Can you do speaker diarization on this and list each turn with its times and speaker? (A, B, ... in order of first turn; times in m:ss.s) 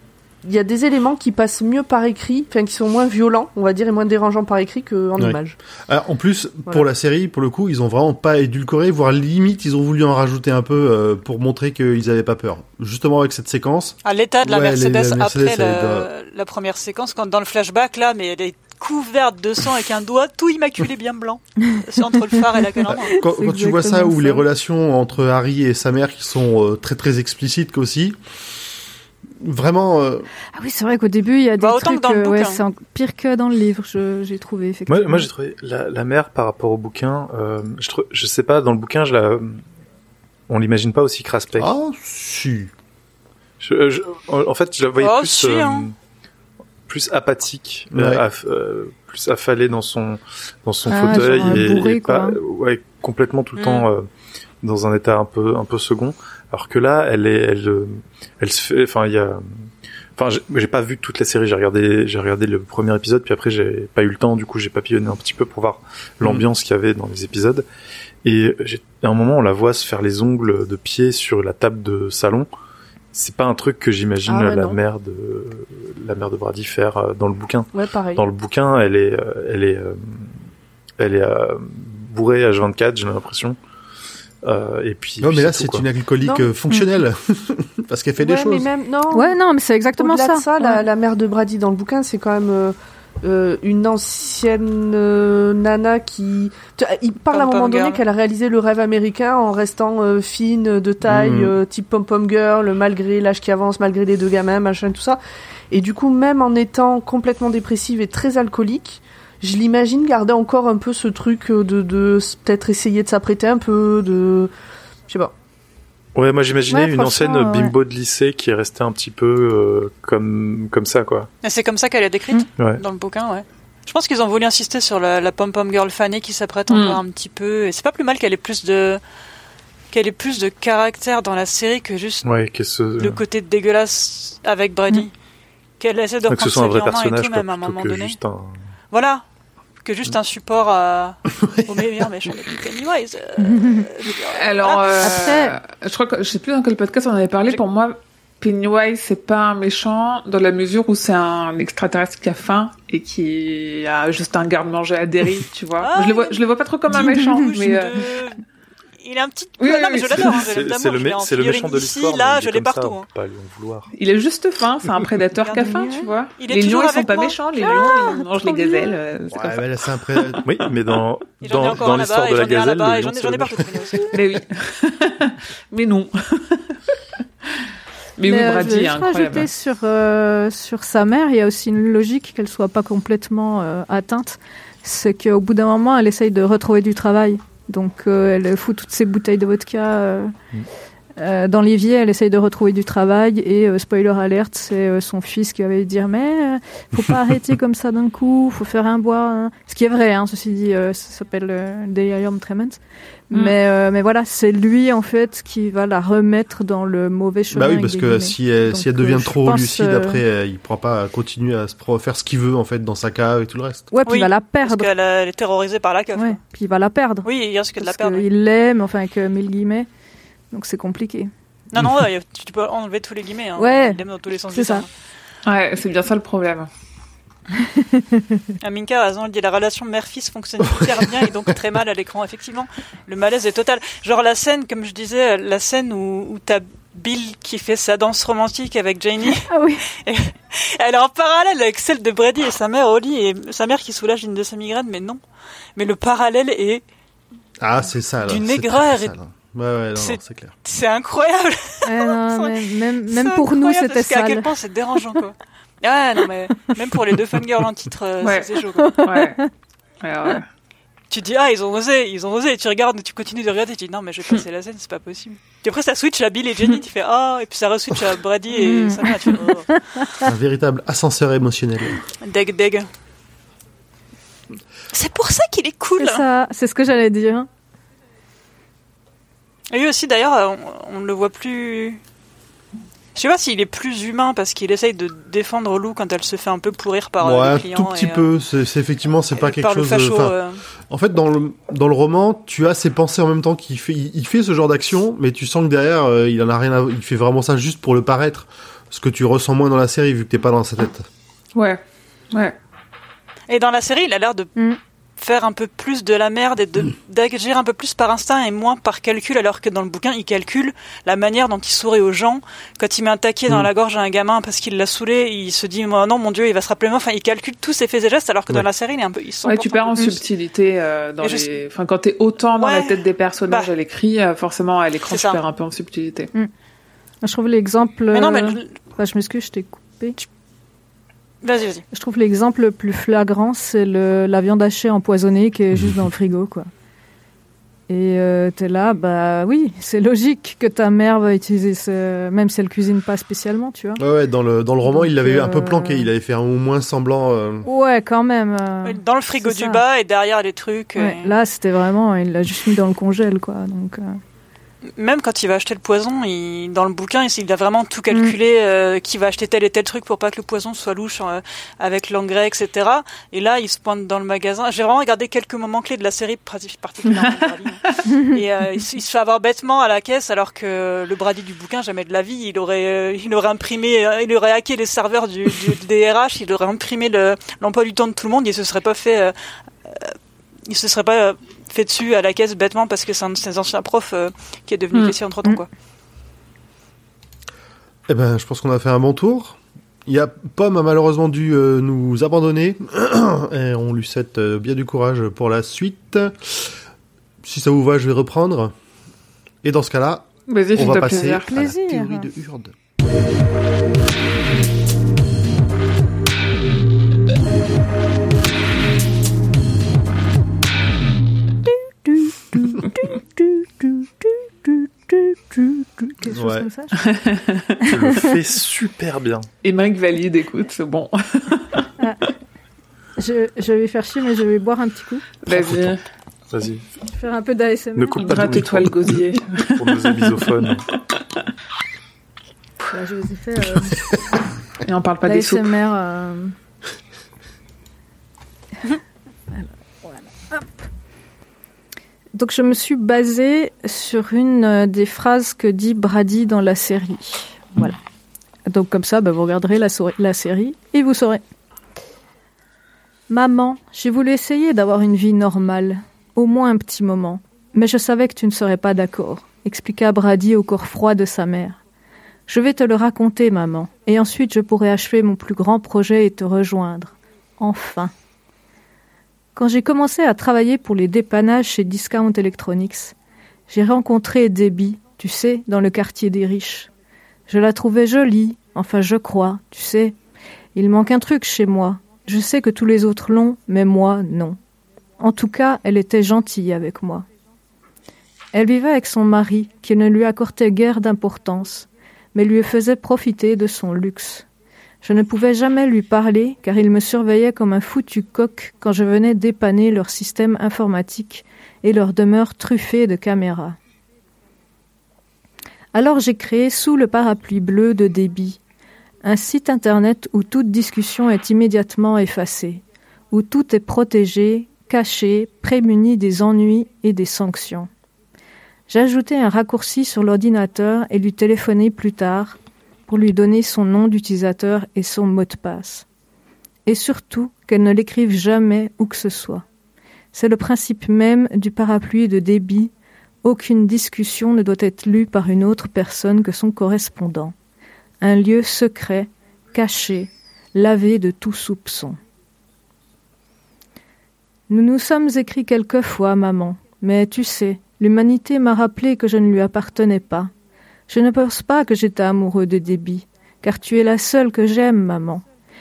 0:00.4-0:05.6 A
0:05.2-0:16.1 B
0:14.0-0:23.2 C
0:22.4-0:24.4 D
0:22.9-0:28.2 B
0:29.4-0:30.3 B
0:30.5-0:35.3 D
0:31.6-0:32.6 C
0:34.9-0:39.6 E
0:40.5-0:41.7 E
0:41.6-0:42.7 B
0:43.6-0:45.9 E
0:45.0-0:45.9 C
0:46.9-0:54.1 E
0:47.9-0:48.2 B
0:50.9-0:52.4 D
0:53.6-0:53.8 C
0:54.6-1:07.6 E
1:08.2-1:12.5 E
1:13.1-1:20.4 E
1:14.2-1:14.8 A
1:17.7-1:18.2 A
1:21.0-1:23.6 E
1:24.4-1:25.8 E
1:25.2-1:28.7 B
1:26.2-1:26.5 A
1:28.2-1:29.4 A
1:29.1-1:30.8 D
1:30.0-1:45.2 A
1:37.3-1:38.0 C
1:41.0-1:41.6 B
1:45.7-1:54.5 A
1:55.1-1:55.3 A
1:56.2-2:01.3 E
1:56.7-1:57.7 D
2:01.4-2:09.0 C
2:06.7-2:07.0 F
2:09.9-2:12.3 C
2:12.2-2:13.2 E
2:13.0-2:15.1 C
2:15.8-2:18.2 C
2:16.3-2:18.6 E
2:18.9-2:19.2 C
2:19.8-2:25.2 C
2:21.4-2:21.8 B
2:23.4-2:23.8 D
2:24.3-2:38.1 F
2:25.0-2:25.6 D
2:35.8-2:36.4 C
2:36.9-2:38.4 C
2:37.0-2:37.4 D
2:39.0-2:43.1 C
2:39.6-2:40.5 F
2:40.1-2:43.9 E
2:44.0-2:50.4 F
2:45.4-2:47.9 C
2:45.6-2:46.1 D
2:47.6-2:49.0 D
2:49.3-2:50.4 B
2:50.4-2:54.0 E
2:51.4-2:54.1 C
2:54.1-2:56.8 F
2:58.2-2:59.5 F
2:58.3-3:10.3 D
3:11.2-3:30.2 D
3:27.5-3:33.9 B
3:33.9-3:34.9 D
3:34.1-3:36.4 C
3:36.2-3:37.3 D
3:37.2-3:38.2 C
3:37.8-3:39.9 D
3:40.5-3:41.3 D
3:41.7-3:44.9 C
3:43.6-3:44.0 D
3:44.5-3:44.8 D
3:45.5-3:46.7 F
3:47.6-3:48.2 D
3:48.6-4:05.2 C
3:59.4-3:59.8 D
4:05.8-4:06.8 C
4:07.6-4:10.6 B
4:08.2-4:09.2 C
4:10.0-4:19.0 C
4:11.8-4:14.5 D
4:18.2-4:18.5 F
4:18.8-4:19.5 D
4:19.0-4:19.4 F
4:20.0-4:20.5 F
4:21.1-4:29.7 C
4:28.5-4:30.3 D
4:30.2-4:32.0 B
4:32.2-4:32.9 C
4:34.9-4:36.2 C
4:36.0-4:37.5 D
4:39.7-4:42.0 C
4:43.2-4:48.3 C
4:47.2-4:50.4 B
4:49.4-4:50.6 C
4:50.9-5:01.1 B
5:01.6-5:02.6 F
5:03.5-5:04.5 C
5:05.2-5:20.2 C
5:19.4-5:26.3 F
5:21.2-5:21.5 C
5:22.6-5:23.7 C
5:25.1-5:25.4 C
5:27.2-5:30.2 D
5:28.1-5:28.7 C
5:31.4-5:31.8 C
5:31.9-5:36.7 D
5:37.9-5:44.0 D
5:44.0-5:47.7 B
5:44.9-5:46.1 D
5:47.6-5:49.8 D
5:48.8-5:51.3 C
5:51.0-5:54.2 D
5:55.0-6:20.2 C
6:08.1-6:08.4 D
6:20.7-6:25.7 C
6:28.1-6:36.7 B
6:37.4-6:38.7 B
6:39.6-6:42.7 B
6:40.5-6:41.5 F
6:41.2-6:42.3 D
6:52.0-6:57.0 D
6:56.3-6:56.7 B
6:56.9-6:57.8 F
6:57.8-6:59.5 E
6:57.9-6:58.3 D
6:59.6-7:01.8 F
7:02.0-7:02.3 D
7:03.2-7:05.3 D
7:05.4-7:06.0 F
7:05.5-7:06.0 E
7:06.5-7:06.8 E
7:07.1-7:08.6 D
7:08.0-7:10.9 E
7:08.2-7:10.6 F
7:12.9-7:14.0 D
7:14.8-7:15.7 F
7:15.2-7:16.6 D
7:19.6-7:20.9 D
7:22.3-7:28.0 D
7:28.7-7:31.4 D
7:33.3-7:41.8 D
7:42.5-7:48.1 D
7:49.6-7:53.2 D
7:53.7-7:56.9 D
7:57.5-8:00.2 D
8:00.8-8:04.6 D
8:05.2-8:07.3 D
8:08.5-8:14.5 D
8:15.0-8:23.8 D
8:25.9-8:28.6 D
8:29.2-8:37.9 D
8:38.9-8:46.1 D
8:46.9-8:49.6 D
8:50.3-8:52.9 D
8:53.4-8:57.5 D
8:58.2-9:02.2 D
9:04.7-9:10.5 D
9:11.1-9:15.4 D